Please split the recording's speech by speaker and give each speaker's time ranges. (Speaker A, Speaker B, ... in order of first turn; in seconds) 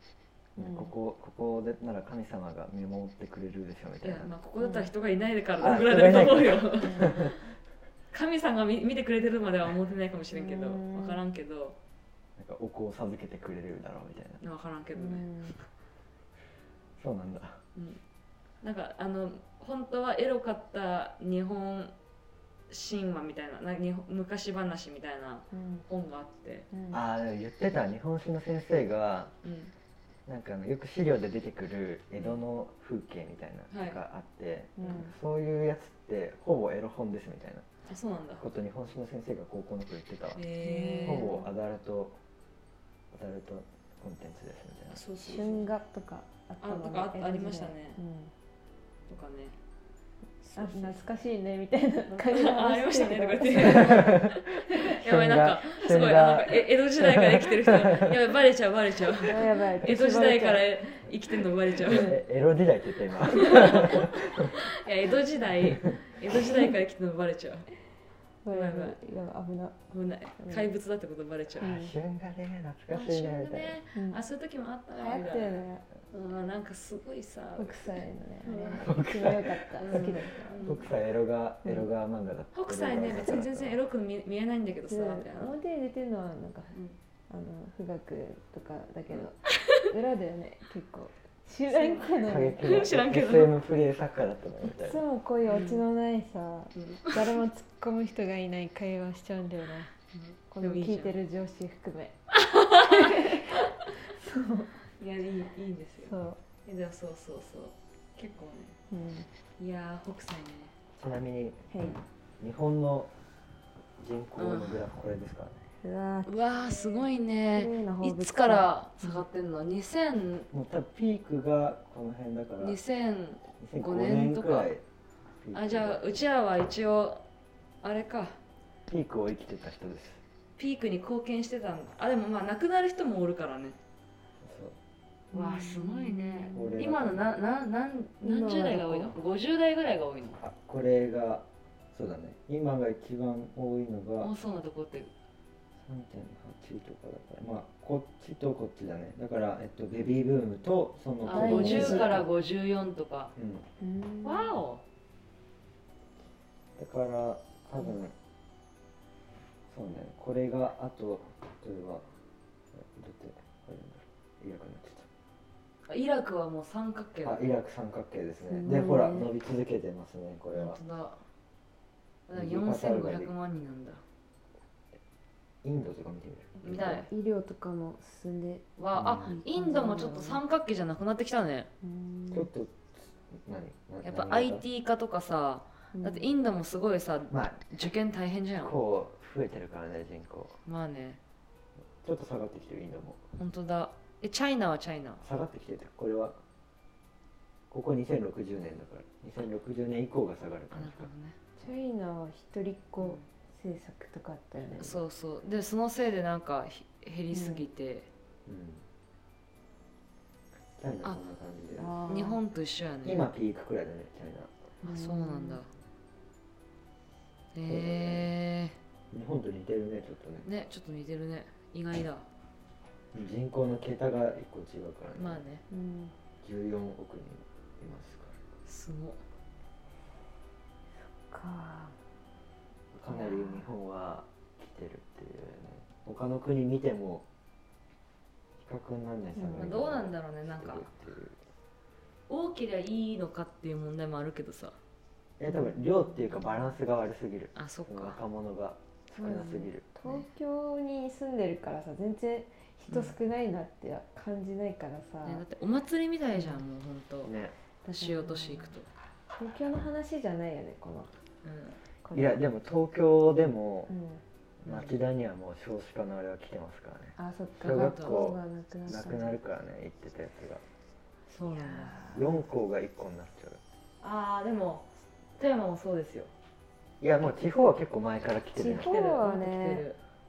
Speaker A: 0.6-0.9, 4.6-4.9, 6.8-7.1, 10.3-11.2, 14.9-15.5, 25.5-25.8, 26.7-27.0, 34.8-35.1, 40.6-41.4, 45.2-48.3, 50.5-54.2, 59.2-60.8, 68.4-69.8, 70.4-70.7, 71.6-71.9, 73.9-74.2, 74.9-75.8, 77.6-80.7, 84.9-86.8, 87.3-92.7, 94.7-99.9, 100.5-102.2, 102.7-104.8, 106.0-106.4, 108.9-109.3, 111.7-112.0, 115.8-116.3, 117.5-119.1, 135.3-136.8, 138.2-139.1, 151.2-152.3, 153.8-154.6, 168.4-169.3, 176.6-178.7, 179.2-180.4, 181.8-182.5, 185.9-186.3, 201.6-205.0, 207.3-207.6, 211.8-212.4, 214.8-215.6, 225.7-226.1, 231.2-231.9, 233.1-233.7, 239.3-239.8, 245.5-245.8, 249.1-255.4, 256.3-256.6, 257.8-258.8, 259.3-261.1, 262.0-262.4, 263.9-264.2, 267.1-269.4, 271.5-272.4, 278.6-279.9
Speaker B: 0.6-4.3, 5.6-7.3, 12.4-14.4, 17.0-17.6, 26.9-29.3, 30.2-37.6, 38.4-40.5, 41.0-42.2, 43.1-45.0, 53.5-58.1, 61.8-64.5, 65.6-66.0, 71.6-73.8, 78.8-83.8, 92.2-95.0, 111.0-111.7, 112.4-113.1, 114.0-115.6, 120.5-122.8, 123.6-124.8, 125.4-126.0, 128.9-130.2, 134.4-134.8, 136.5-137.2, 140.4-144.3, 145.8-152.3, 153.3-153.7, 156.8-158.1, 159.7-162.1, 162.7-165.1, 167.2-170.8, 172.3-173.3, 175.6-177.0, 178.9-179.4, 182.3-184.6, 187.3-187.6, 188.6-190.6, 192.0-193.2, 195.2-196.4, 197.7-201.1, 208.4-208.8, 210.8-212.0, 213.0-214.5, 217.6-218.3, 219.1-220.5, 223.1-225.4, 226.4-228.3, 232.9-237.2, 238.6-241.4, 245.4-249.8, 257.2-257.5, 262.1-263.9, 264.6-270.6, 272.1-273.6, 277.0-279.0
Speaker C: 4.0-7.4, 8.1-11.8, 14.4-15.6, 17.7-18.0, 18.6-21.9, 22.7-26.7, 29.4-29.7, 33.7-34.0, 37.9-38.4, 40.3-41.4, 44.9-45.7, 46.6-48.0, 49.1-49.6, 50.4-51.0, 52.1-62.1, 63.3-67.7, 68.5-69.0, 69.9-71.8, 72.9-77.9, 78.4-78.9, 79.8-80.8, 82.5-85.5, 89.1-89.9, 91.7-93.5, 95.4-95.8, 96.7-97.4, 100.1-101.2, 102.3-103.9, 105.0-108.8, 109.6-110.7, 114.4-114.9, 116.2-120.5, 122.6-124.7, 125.5-127.2, 127.8-128.4, 130.6-133.8, 135.3-140.4, 144.2-145.1, 151.2-153.3, 154.2-154.8, 165.9-167.5, 170.5-171.2, 172.3-174.0, 176.6-177.1, 178.8-181.7, 184.0-188.7, 190.7-191.2, 193.4-195.2, 200.7-201.4, 203.0-203.2, 204.8-208.1, 212.1-213.3, 214.8-215.7, 217.5-218.8, 220.4-222.3, 225.2-225.6, 228.6-229.2, 239.5-240.9, 242.3-244.8, 247.5-248.2, 249.3-250.2, 255.2-257.3, 257.9-258.9, 261.4-261.8, 264.6-264.9, 267.6-268.2, 271.3-272.1, 274.0-276.3, 278.6-280.0